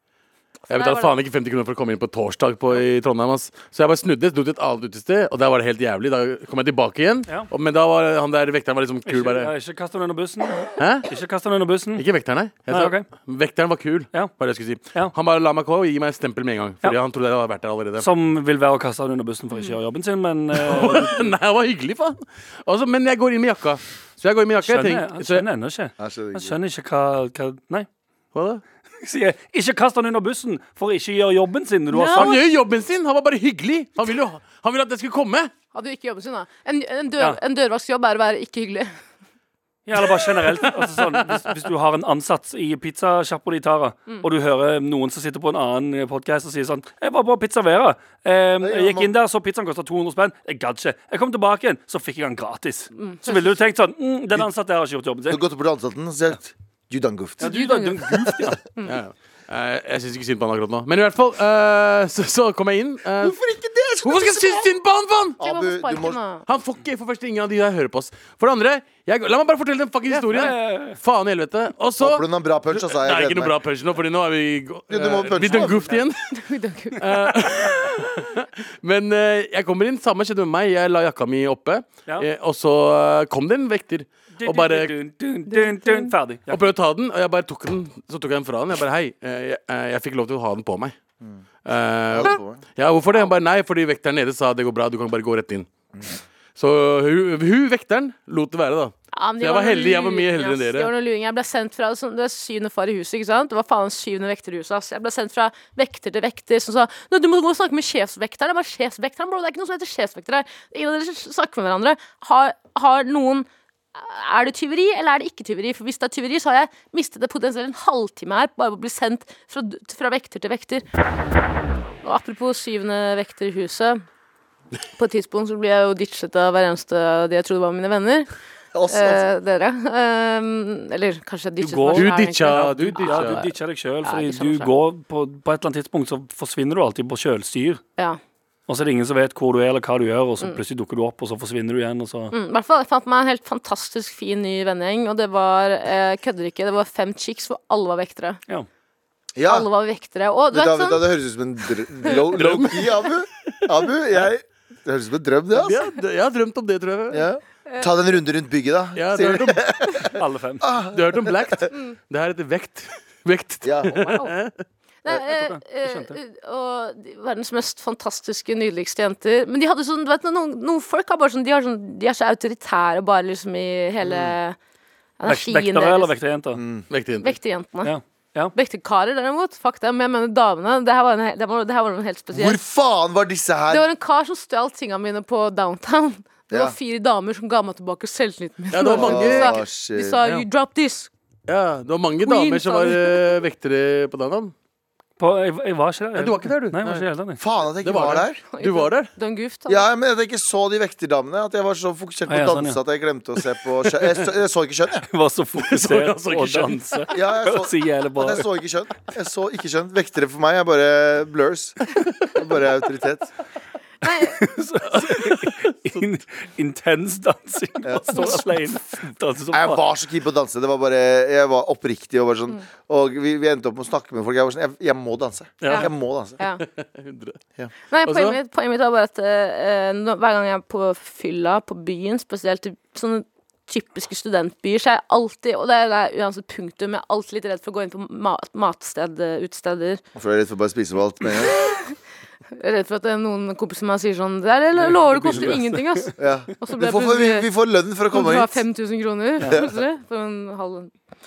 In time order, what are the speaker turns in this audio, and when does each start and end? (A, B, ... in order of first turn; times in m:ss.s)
0:00.7-0:01.2 A
0:00.7-0:09.5 B
0:09.1-0:12.1 C
0:10.8-0:11.1 B
0:12.0-0:18.1 B
0:12.7-0:13.1 C
0:18.0-0:21.3 C
0:19.5-0:19.8 A
0:20.5-0:25.4 B
0:24.6-0:27.9 C
0:26.0-0:26.6 D
0:28.4-0:28.6 B
0:29.0-0:32.4 C
0:31.9-0:32.4 A
0:32.1-0:35.5 B
0:35.7-0:38.9 A
0:39.9-0:55.4 C
0:48.6-0:49.1 D
0:53.0-0:53.5 A
0:55.3-0:57.6 D
0:57.4-0:58.6 C
0:57.4-0:58.0 A
0:58.8-1:03.4 B
1:03.2-1:04.7 D
1:04.0-1:05.4 B
1:05.4-1:06.2 D
1:05.4-1:06.4 A
1:06.5-1:16.4 B
1:10.3-1:11.0 C
1:12.0-1:13.5 D
1:14.9-1:16.0 D
1:15.5-1:16.0 C
1:16.3-1:17.4 A
1:17.0-1:24.9 B
1:24.4-1:26.6 C
1:25.5-1:26.1 A
1:26.5-1:31.0 B
1:31.6-1:35.7 B
1:32.1-1:32.6 D
1:36.6-1:40.9 B
1:39.1-2:00.8 A
2:02.0-2:04.0 A
2:05.0-2:08.3 A
2:08.7-2:09.3 D
2:08.9-2:13.5 A
2:11.6-2:17.8 C
2:11.9-2:13.5 B
2:14.0-2:14.7 A
2:18.7-2:22.3 C
2:22.3-2:28.4 A
2:29.4-2:29.7 D
2:29.4-2:31.1 A
2:30.5-2:35.8 D
2:32.3-2:33.1 B
2:35.5-2:37.3 B
2:37.1-2:41.6 D
2:37.7-2:37.9 A
2:39.0-2:39.7 B
2:40.2-2:40.7 C
2:40.9-2:44.6 B
2:43.6-2:44.2 D
2:45.0-2:54.6 A
2:45.3-2:46.2 C
2:54.0-2:54.4 D
2:55.2-2:56.1 A
2:55.3-2:56.6 C
2:56.5-2:56.9 D
2:56.9-2:57.4 B
2:57.2-2:57.9 A
2:57.8-2:58.5 C
2:58.6-3:02.6 A
3:02.3-3:03.9 D
3:03.7-3:11.1 A
3:06.5-3:06.8 D
3:08.7-3:09.5 B
3:08.8-3:10.2 D
3:11.5-3:14.5 B
3:12.2-3:13.4 A
3:15.2-3:17.4 C
3:16.2-3:17.1 B
3:17.4-3:18.4 D
3:17.8-3:19.1 B
3:18.5-3:19.9 A
3:19.7-3:25.1 D
3:22.3-3:22.8 C
3:25.1-3:28.5 C
3:25.6-3:27.0 B
3:27.1-3:33.3 D
3:34.0-3:34.4 A
3:34.3-3:39.8 C
3:34.9-3:35.7 B
3:37.8-3:38.4 D
3:38.1-3:38.4 A
3:39.5-3:46.4 D
3:45.6-3:45.9 C
3:46.4-3:47.4 B
3:47.9-4:00.0 A
3:48.0-3:48.4 B
4:00.2-4:01.6 D
4:01.5-4:02.0 A
4:02.5-4:07.5 A
4:04.8-4:06.1 C
4:06.2-4:08.6 D
4:08.1-4:10.9 A